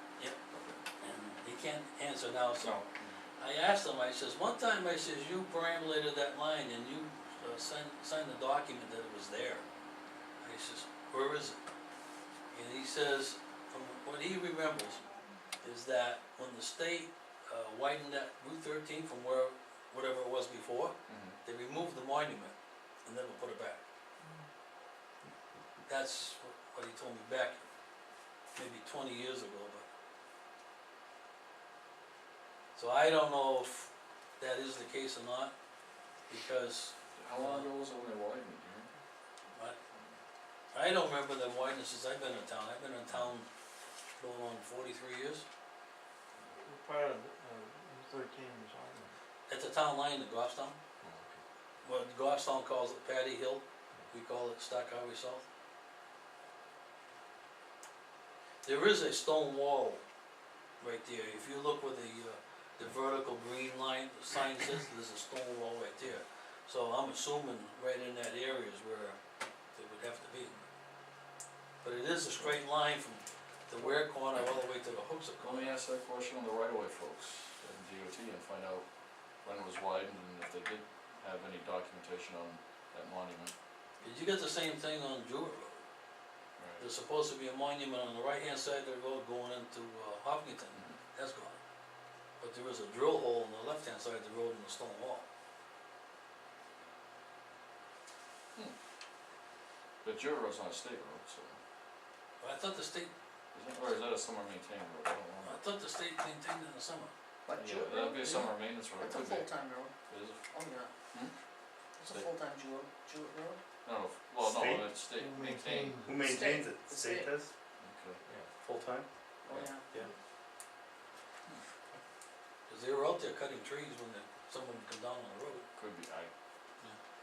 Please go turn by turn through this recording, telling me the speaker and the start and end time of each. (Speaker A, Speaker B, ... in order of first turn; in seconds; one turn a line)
Speaker A: 0.5-0.8
Speaker B: 1.0-2.8
Speaker A: 2.5-3.2
Speaker B: 3.4-9.7
Speaker B: 10.4-11.6
Speaker B: 12.5-15.0
Speaker B: 15.6-22.5
Speaker A: 21.1-21.4
Speaker B: 23.1-23.8
Speaker B: 25.9-27.6
Speaker B: 28.6-29.8
Speaker B: 32.8-35.5
Speaker B: 36.3-37.7
Speaker A: 37.1-38.9
Speaker A: 39.9-40.2
Speaker B: 40.7-43.5
Speaker B: 44.2-45.5
Speaker C: 46.5-49.1
Speaker B: 49.5-50.8
Speaker A: 51.0-51.3
Speaker B: 51.8-55.4
Speaker B: 58.6-60.0
Speaker B: 60.8-69.2
Speaker B: 69.7-70.6
Speaker B: 71.8-75.7
Speaker A: 75.4-78.9
Speaker A: 79.4-83.5
Speaker B: 84.0-85.8
Speaker A: 86.6-86.8
Speaker B: 86.8-91.6
Speaker B: 92.4-95.2
Speaker A: 100.0-101.6
Speaker B: 102.4-103.1
Speaker A: 103.5-105.6
Speaker B: 105.4-107.1
Speaker D: 107.5-109.9
Speaker A: 107.6-110.4
Speaker D: 110.5-110.9
Speaker D: 112.0-113.6
Speaker A: 112.0-112.3
Speaker A: 113.8-116.1
Speaker E: 114.4-114.9
Speaker C: 115.2-116.3
Speaker E: 116.1-117.5
Speaker D: 116.3-117.3
Speaker A: 117.8-118.2
Speaker E: 118.6-119.1
Speaker D: 119.5-119.9
Speaker B: 122.7-125.7
Speaker A: 125.8-126.3